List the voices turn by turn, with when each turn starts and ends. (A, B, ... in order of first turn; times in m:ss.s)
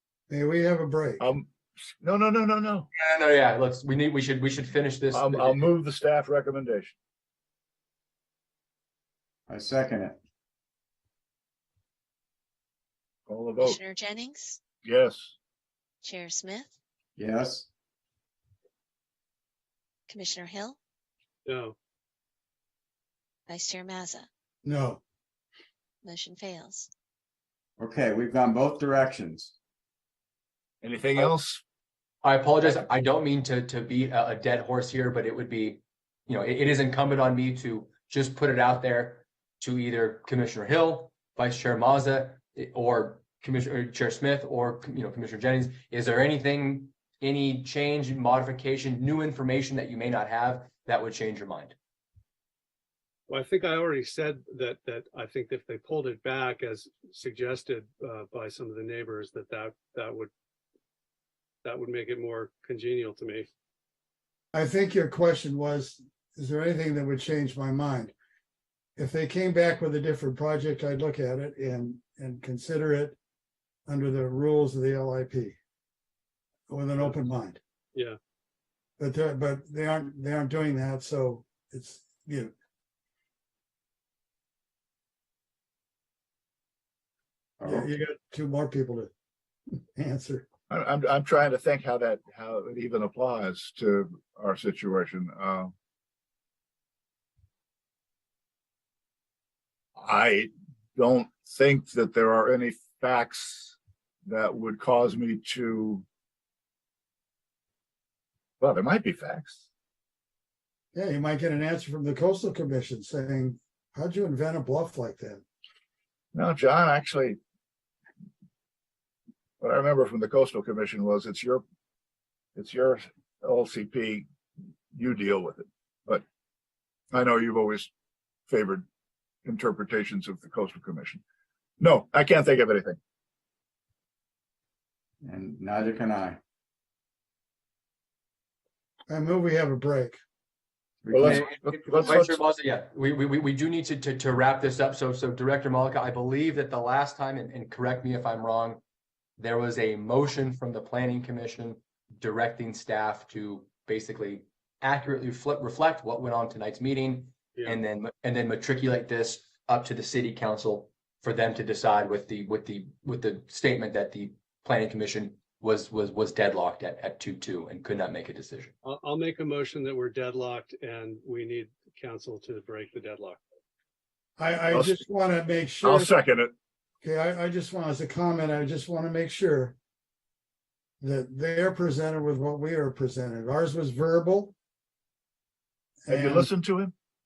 0:00.3-0:01.2 A
0:01.2-0:02.9 B
0:03.0-0:05.7 C
0:05.1-0:07.0 B
0:09.5-0:10.2 D
0:13.3-0:13.8 B
0:13.6-0:14.6 E
0:14.8-0:15.3 B
0:16.0-0:16.8 E
0:17.2-0:17.7 D
0:20.1-0:20.8 E
0:21.5-0:21.8 F
0:23.5-0:24.3 E
0:24.6-0:25.0 A
0:26.0-0:26.9 E
0:27.8-0:29.5 D
0:30.8-0:31.6 B
0:32.2-0:51.8 C
0:53.3-1:00.3 F
1:01.6-1:03.5 F
1:04.5-1:08.1 A
1:09.0-1:13.2 A
1:13.9-1:15.6 A
1:16.7-1:17.6 A
1:19.0-1:22.5 A
1:27.6-1:27.9 D
1:27.6-1:29.1 A
1:29.8-1:30.5 A
1:30.7-1:35.7 B
1:40.0-1:46.0 B
1:48.6-1:49.6 B
1:50.9-1:55.4 A
1:56.3-1:57.4 B
1:59.6-2:01.6 B
2:02.6-2:04.3 B
2:04.9-2:06.2 B
2:07.1-2:07.9 B
2:08.5-2:08.8 B
2:09.4-2:11.2 B
2:11.8-2:13.0 B
2:15.2-2:16.4 D
2:19.1-2:20.2 A
2:21.0-2:21.4 D
2:21.1-2:22.4 B
2:21.3-2:28.8 C
2:29.4-2:48.7 C
2:48.8-2:53.4 F
2:54.4-2:56.1 A
2:54.7-2:55.0 B
2:55.8-2:56.5 B
2:57.0-2:59.8 A
3:01.0-3:04.6 A
3:06.0-3:06.5 A
3:06.1-3:06.9 B